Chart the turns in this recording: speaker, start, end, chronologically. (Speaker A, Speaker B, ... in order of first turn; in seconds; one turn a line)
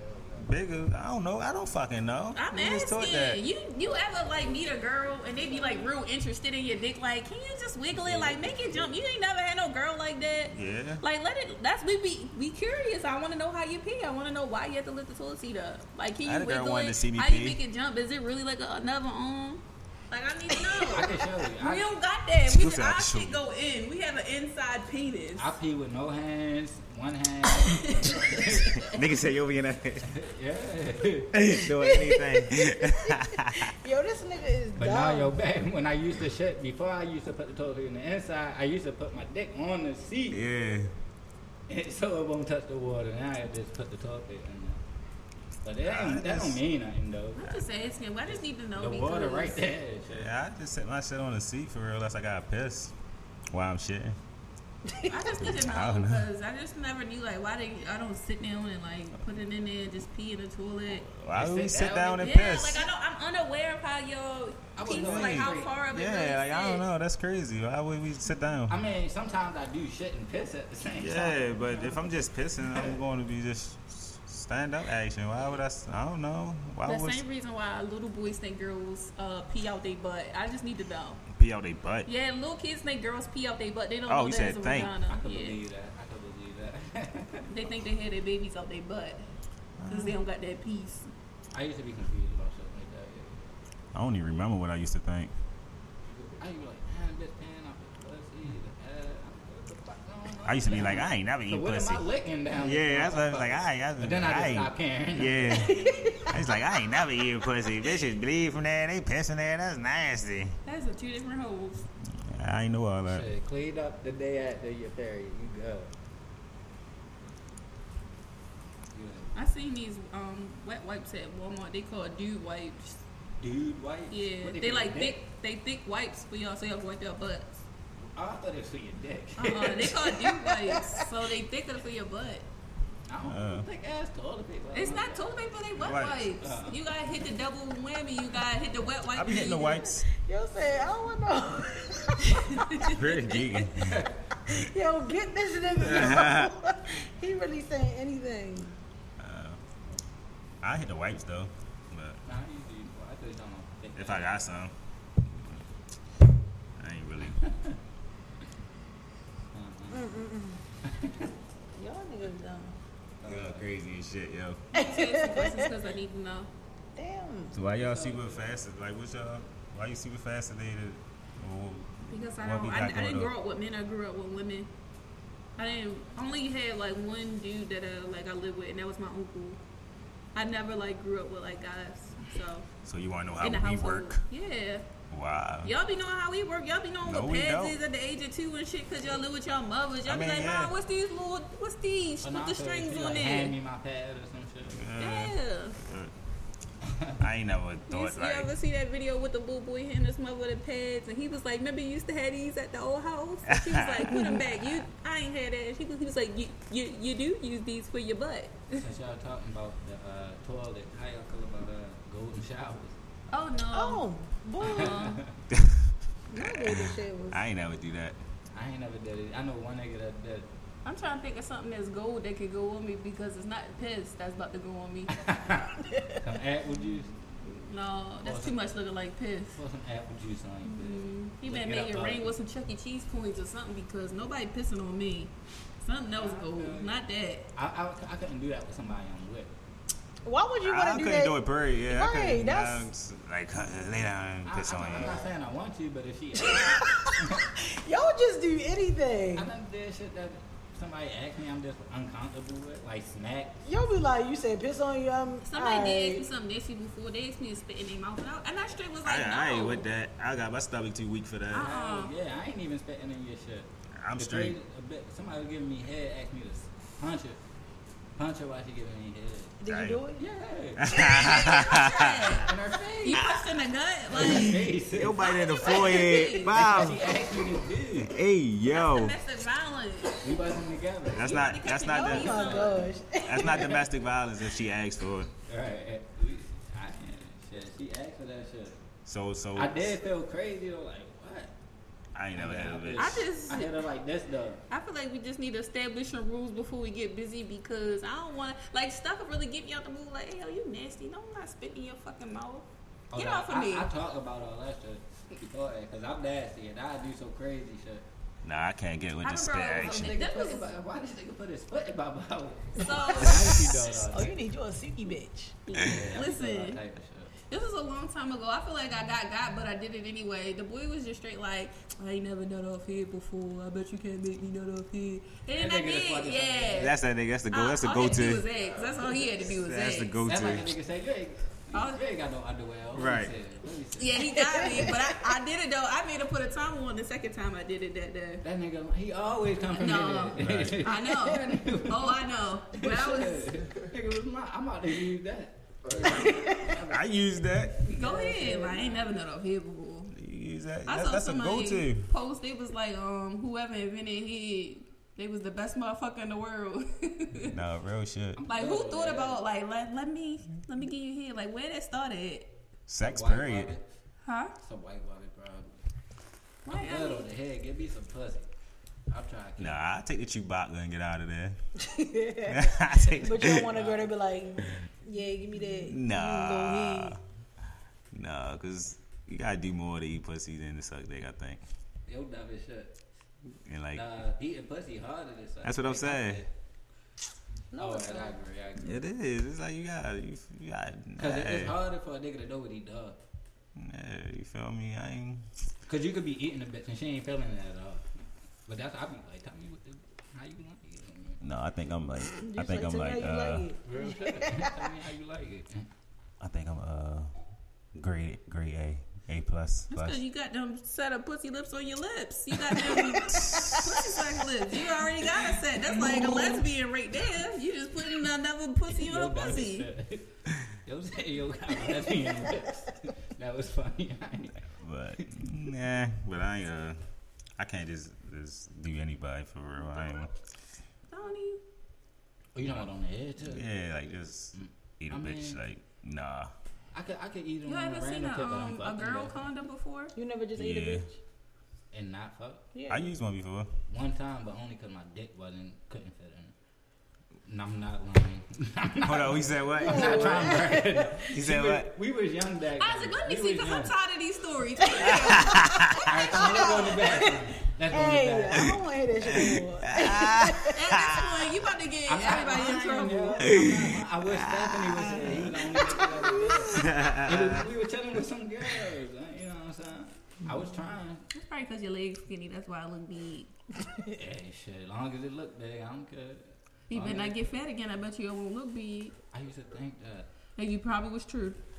Speaker A: 0.3-3.4
Speaker B: 2.4-25.5
Speaker C: 8.1-8.3
Speaker A: 10.5-11.0
Speaker A: 16.2-17.6
Speaker C: 20.7-21.9
Speaker A: 22.5-23.4
Speaker C: 25.4-28.8
Speaker B: 27.6-28.9
Speaker A: 28.6-30.1
Speaker C: 30.1-31.6
Speaker A: 31.3-33.7
Speaker D: 31.8-35.4
Speaker C: 34.8-40.4
Speaker A: 40.3-40.9
Speaker C: 41.7-44.8
Speaker C: 45.6-47.5
Speaker A: 45.8-46.6
Speaker B: 47.4-49.6
Speaker C: 48.2-50.3
Speaker A: 50.1-52.9
Speaker A: 53.5-54.2
Speaker D: 54.9-55.4
Speaker B: 55.1-61.1
Speaker A: 55.4-56.2
Speaker A: 61.1-62.9
Speaker C: 61.3-62.4
Speaker B: 62.1-66.8
Speaker C: 64.7-65.7
Speaker A: 64.9-68.8
Speaker C: 68.7-72.0
Speaker A: 71.0-77.2
Speaker C: 72.6-72.9
Speaker B: 76.8-81.2
Speaker A: 81.3-82.1
Speaker B: 82.0-85.6
Speaker A: 84.1-84.9
Speaker C: 85.0-87.5
Speaker B: 87.5-89.2
Speaker A: 89.8-90.2
Speaker B: 89.9-91.1
Speaker C: 91.5-93.5
Speaker A: 93.9-95.3
Speaker C: 96.1-106.0
Speaker A: 100.4-102.1
Speaker A: 102.6-110.6
Speaker D: 105.6-106.4
Speaker B: 110.6-111.9
Speaker A: 112.2-113.3
Speaker C: 113.1-115.9
Speaker C: 118.9-119.3
Speaker B: 119.3-123.0
Speaker C: 123.4-125.1
Speaker B: 124.1-127.6
Speaker C: 128.1-130.1
Speaker B: 129.4-132.4
Speaker D: 130.2-131.1
Speaker C: 133.1-135.3
Speaker A: 133.2-133.7
Speaker B: 134.7-139.9
Speaker A: 135.8-136.3
Speaker C: 136.4-136.8
Speaker A: 139.1-140.1
Speaker D: 140.1-142.9
Speaker B: 142.5-142.9
Speaker A: 142.8-144.5
Speaker C: 143.8-144.2
Speaker D: 144.4-148.8
Speaker A: 145.8-146.5
Speaker A: 149.2-149.6
Speaker A: 150.6-152.2
Speaker C: 152.2-154.4
Speaker A: 153.9-154.7
Speaker A: 156.8-157.4
Speaker C: 157.4-157.8
Speaker C: 159.5-160.1
Speaker D: 159.9-160.6
Speaker C: 160.8-161.3
Speaker D: 161.7-162.7
Speaker C: 163.2-163.7
Speaker A: 163.2-164.6
Speaker D: 164.7-165.7
Speaker B: 164.7-166.5
Speaker D: 166.9-167.5
Speaker A: 167.5-173.3
Speaker C: 167.7-168.5
Speaker B: 172.1-174.7
Speaker B: 175.6-179.6
Speaker B: 180.3-182.7
Speaker A: 182.8-184.2
Speaker B: 183.4-184.8
Speaker A: 185.1-185.7
Speaker B: 185.6-193.6
Speaker A: 187.0-187.8
Speaker A: 190.1-190.7
Speaker C: 192.2-194.8
Speaker A: 194.7-196.1
Speaker B: 195.0-195.8
Speaker C: 196.8-197.2
Speaker A: 197.2-198.5
Speaker B: 197.9-208.8
Speaker A: 203.5-204.3
Speaker D: 204.2-204.4
Speaker C: 208.8-213.0
Speaker B: 213.3-214.0
Speaker D: 213.7-215.0
Speaker B: 214.6-215.2
Speaker C: 214.6-215.4
Speaker A: 215.5-218.2
Speaker D: 216.3-217.4
Speaker C: 218.5-220.5
Speaker B: 220.8-225.3
Speaker C: 225.1-227.2
Speaker D: 225.8-226.2
Speaker B: 226.7-229.6
Speaker C: 228.2-228.6
Speaker C: 229.5-232.3
Speaker B: 230.6-235.3
Speaker B: 235.8-237.4
Speaker C: 236.1-237.0
Speaker C: 237.5-239.5
Speaker D: 240.2-242.9
Speaker A: 240.6-245.3
Speaker C: 244.4-247.4
Speaker D: 246.3-249.5
Speaker C: 249.3-253.6
Speaker D: 253.6-256.3
Speaker B: 255.4-259.9
Speaker A: 259.0-261.7
Speaker B: 261.5-262.1
Speaker C: 261.5-267.4
Speaker A: 264.0-264.6
Speaker C: 268.1-269.6
Speaker D: 269.6-270.2
Speaker A: 269.7-270.0
Speaker C: 270.2-270.9
Speaker A: 270.8-272.5
Speaker B: 270.9-276.6
Speaker C: 272.4-273.2
Speaker A: 273.1-273.4
Speaker C: 274.1-275.3
Speaker A: 274.9-277.0
Speaker C: 276.5-278.1
Speaker A: 278.1-279.2
Speaker B: 278.7-280.4
Speaker C: 280.2-281.6
Speaker A: 281.1-282.6
Speaker B: 281.2-282.8
Speaker D: 281.9-283.8
Speaker C: 282.3-282.9
Speaker A: 283.2-285.3
Speaker C: 285.5-288.8
Speaker A: 289.1-290.0
Speaker C: 289.6-291.5
Speaker A: 292.1-293.2
Speaker C: 292.3-294.6
Speaker B: 293.0-293.8
Speaker B: 294.7-303.9
Speaker C: 303.1-308.0
Speaker A: 308.4-310.1
Speaker B: 309.2-310.7
Speaker C: 309.7-314.4
Speaker B: 312.8-313.8
Speaker D: 313.1-315.6
Speaker B: 315.7-316.8
Speaker C: 315.7-317.3
Speaker B: 317.5-326.9
Speaker C: 325.6-326.9
Speaker A: 326.7-328.5
Speaker B: 327.5-330.2
Speaker A: 329.4-330.8
Speaker C: 330.2-334.8
Speaker B: 331.7-332.1
Speaker A: 332.9-333.3
Speaker B: 334.0-338.4
Speaker D: 334.4-335.0
Speaker C: 338.4-347.1
Speaker B: 339.7-343.6
Speaker A: 340.4-340.8
Speaker D: 346.1-346.7
Speaker A: 346.9-347.8
Speaker C: 347.8-349.1
Speaker B: 347.9-350.1
Speaker A: 350.1-352.1
Speaker B: 350.9-357.5
Speaker A: 357.4-358.4
Speaker C: 358.4-359.4
Speaker B: 358.5-362.5
Speaker A: 362.9-363.7
Speaker C: 363.0-363.8
Speaker B: 364.2-364.5
Speaker C: 364.6-365.8
Speaker B: 366.6-367.3
Speaker C: 366.7-368.5
Speaker C: 369.1-369.8
Speaker A: 369.6-371.6
Speaker D: 371.8-377.1
Speaker A: 372.5-373.7
Speaker C: 373.6-374.1
Speaker A: 375.9-377.2
Speaker A: 378.1-381.6
Speaker C: 382.1-382.9
Speaker A: 383.6-384.0
Speaker C: 383.9-386.5
Speaker A: 385.6-386.4
Speaker D: 387.7-388.4
Speaker C: 387.8-389.0
Speaker A: 388.8-391.8
Speaker C: 391.2-393.2
Speaker A: 393.8-395.4
Speaker C: 395.8-398.1
Speaker C: 398.7-401.4
Speaker A: 401.4-403.7
Speaker D: 402.4-404.9
Speaker C: 403.9-405.9
Speaker A: 406.4-407.3
Speaker A: 407.9-410.2
Speaker B: 409.9-419.9
Speaker A: 413.3-413.8
Speaker C: 415.4-416.3
Speaker C: 418.9-420.3
Speaker C: 420.8-425.4
Speaker A: 424.8-427.0
Speaker A: 427.6-430.3
Speaker B: 431.1-431.6
Speaker C: 432.5-433.6
Speaker A: 433.4-436.5
Speaker C: 434.5-435.6
Speaker C: 436.9-439.3
Speaker B: 437.6-440.1
Speaker D: 440.1-441.1
Speaker A: 440.6-441.1
Speaker C: 441.9-442.6
Speaker D: 442.7-443.1
Speaker A: 442.9-443.7
Speaker C: 443.9-446.5
Speaker C: 447.4-453.9
Speaker A: 449.0-450.6
Speaker D: 449.8-451.2
Speaker A: 451.3-451.9
Speaker B: 452.8-457.2
Speaker A: 455.0-456.1
Speaker D: 455.5-460.9
Speaker C: 456.1-458.7
Speaker A: 459.2-461.5
Speaker B: 460.7-463.6
Speaker C: 462.1-471.2
Speaker A: 463.5-465.9
Speaker D: 466.0-466.6
Speaker A: 466.7-467.7
Speaker B: 471.3-473.5
Speaker C: 474.1-477.4
Speaker B: 476.9-479.1
Speaker C: 479.3-480.3
Speaker B: 480.6-481.6